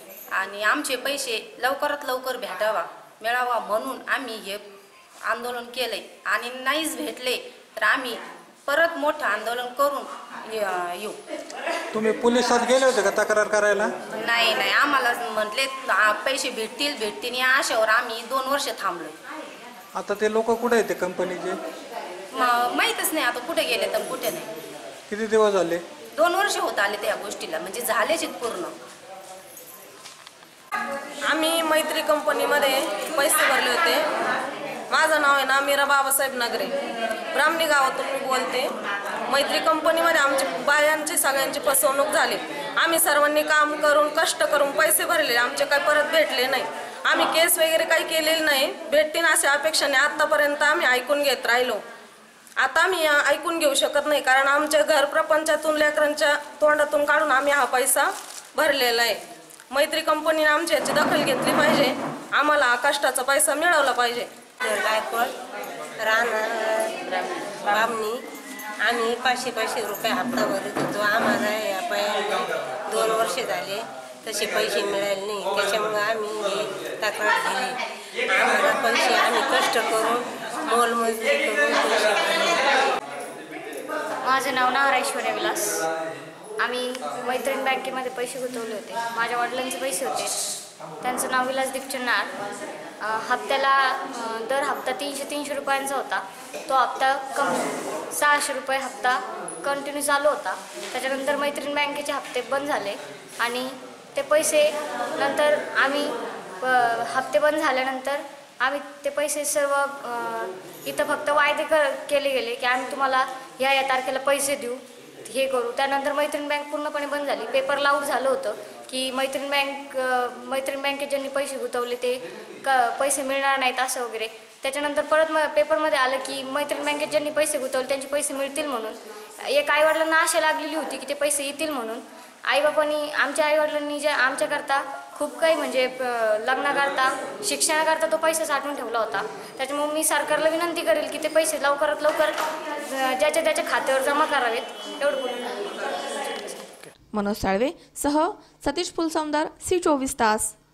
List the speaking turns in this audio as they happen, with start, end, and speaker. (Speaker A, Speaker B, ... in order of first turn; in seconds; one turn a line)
Speaker A: 0.3-11.2
Speaker B: 11.9-13.9
Speaker A: 14.1-19.1
Speaker B: 19.9-21.6
Speaker A: 22.3-24.5
Speaker B: 25.1-25.8
Speaker A: 26.1-28.8
Speaker C: 31.3-34.0
Speaker C: 34.9-36.7
Speaker C: 37.3-38.7
Speaker C: 39.3-51.8
Speaker C: 52.6-64.3
Speaker D: 64.6-65.3
Speaker D: 66.0-68.2
Speaker D: 68.8-82.7
Speaker E: 84.2-85.8
Speaker E: 86.6-90.3
Speaker E: 91.0-92.3
Speaker E: 93.0-145.6
Speaker F: 147.1-150.6